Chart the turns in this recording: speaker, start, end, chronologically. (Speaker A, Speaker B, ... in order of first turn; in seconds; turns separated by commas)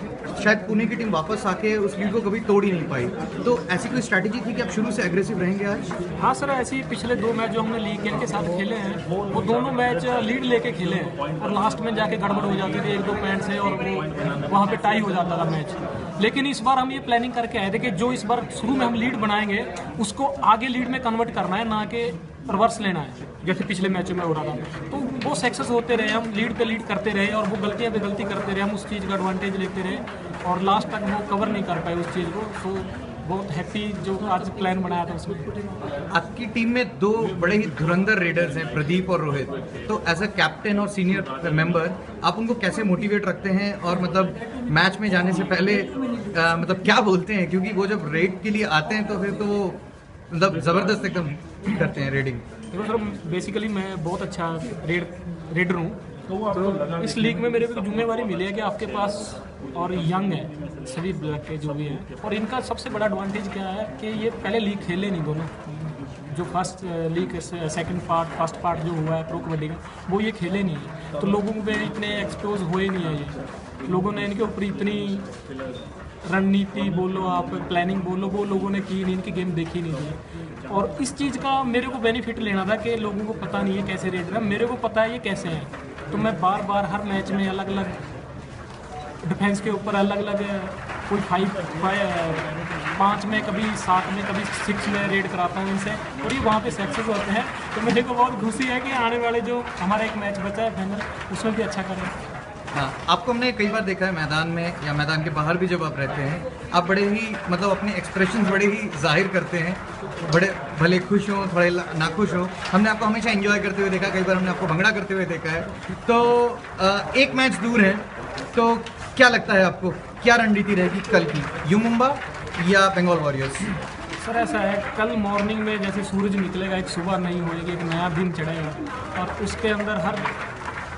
Speaker A: 0.3-5.9, Speaker B: 6.2-35.5, Speaker A: 36.1-52.4, Speaker B: 52.7-65.6, Speaker B: 66.3-75.3, Speaker B: 76.2-88.0, Speaker B: 89.2-102.2, Speaker A: 102.7-123.7, Speaker B: 124.2-130.3